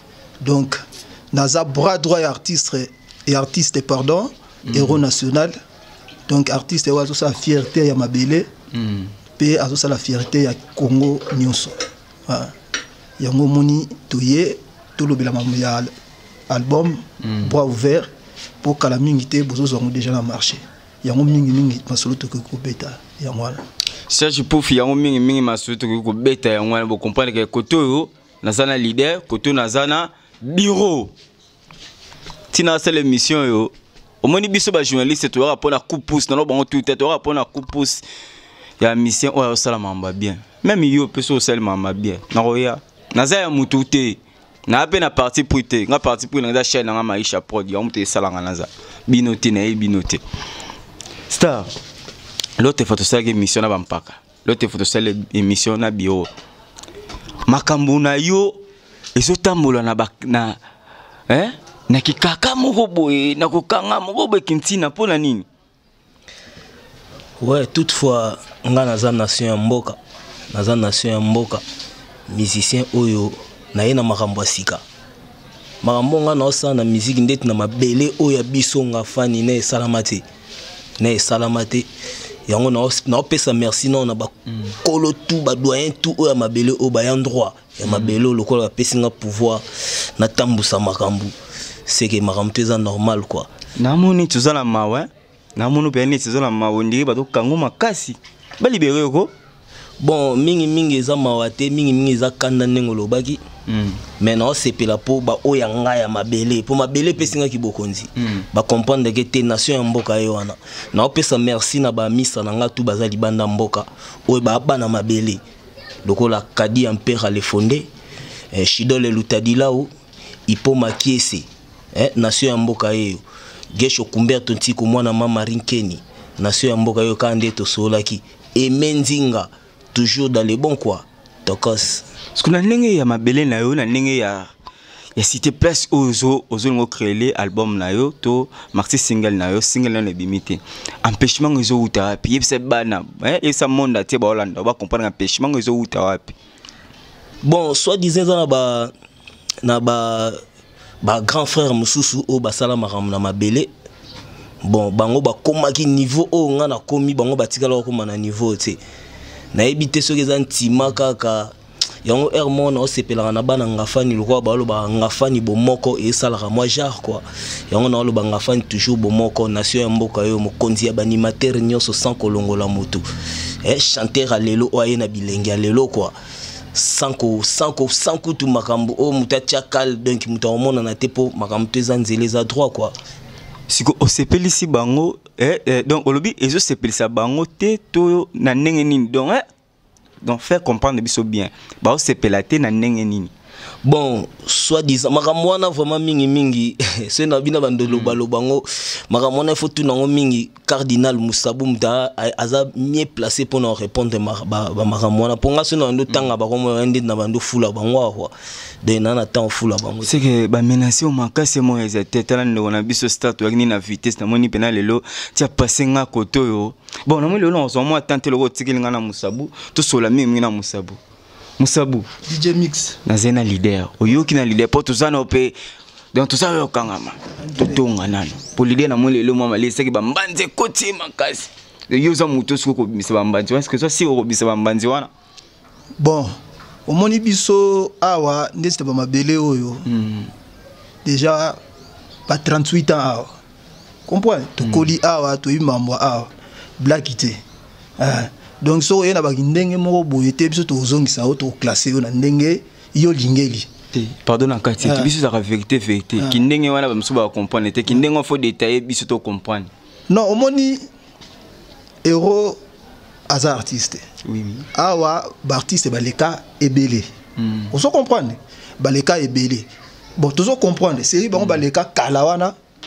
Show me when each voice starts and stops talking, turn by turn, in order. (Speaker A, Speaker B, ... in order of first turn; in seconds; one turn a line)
Speaker A: 0.4-5.6
Speaker B: 4.7-5.0
Speaker A: 6.3-8.5
Speaker B: 8.7-9.1
Speaker A: 9.4-11.8
Speaker A: 12.3-12.5
Speaker A: 13.2-15.9
Speaker A: 16.5-18.1
Speaker B: 17.2-17.5
Speaker A: 18.6-23.6
Speaker B: 24.1-31.1
Speaker B: 32.5-33.7
Speaker B: 34.2-38.0
Speaker B: 38.8-50.2
Speaker B: 51.3-51.7
Speaker B: 52.6-56.3
Speaker B: 57.5-58.6
Speaker B: 59.2-60.6
Speaker B: 61.3-65.5
Speaker C: 67.4-70.0
Speaker C: 70.5-71.6
Speaker C: 72.3-74.8
Speaker C: 75.8-80.2
Speaker C: 81.0-81.9
Speaker C: 82.5-89.6
Speaker B: 87.8-88.2
Speaker C: 90.2-91.3
Speaker C: 91.9-93.5
Speaker B: 93.8-99.3
Speaker C: 100.0-103.4
Speaker B: 103.7-104.0
Speaker C: 104.2-115.4
Speaker C: 116.0-117.9
Speaker C: 118.5-119.9
Speaker C: 120.5-123.2
Speaker C: 123.8-132.1
Speaker B: 132.4-134.5
Speaker B: 135.2-146.4
Speaker C: 147.4-148.9
Speaker C: 149.6-150.4
Speaker C: 151.0-153.7
Speaker C: 154.6-158.8
Speaker C: 159.5-161.5
Speaker C: 162.1-173.0
Speaker C: 173.6-176.1
Speaker C: 176.7-182.9
Speaker B: 183.7-189.4
Speaker B: 190.2-193.3
Speaker C: 193.8-210.2
Speaker B: 197.9-198.2
Speaker B: 210.0-221.0
Speaker B: 221.6-222.1
Speaker A: 222.3-223.0
Speaker B: 223.1-225.6
Speaker B: 226.1-235.1
Speaker A: 227.4-227.8
Speaker A: 236.0-236.4
Speaker A: 236.9-239.9
Speaker B: 239.9-240.3
Speaker A: 241.1-241.6
Speaker A: 242.3-243.3
Speaker A: 244.1-247.4
Speaker B: 244.6-244.9
Speaker A: 248.0-253.7
Speaker B: 253.9-259.7
Speaker A: 254.8-255.1
Speaker A: 260.1-260.9
Speaker A: 262.1-262.6
Speaker A: 263.3-264.0
Speaker B: 264.2-264.7
Speaker A: 264.7-267.1
Speaker B: 267.4-267.7
Speaker A: 267.7-272.5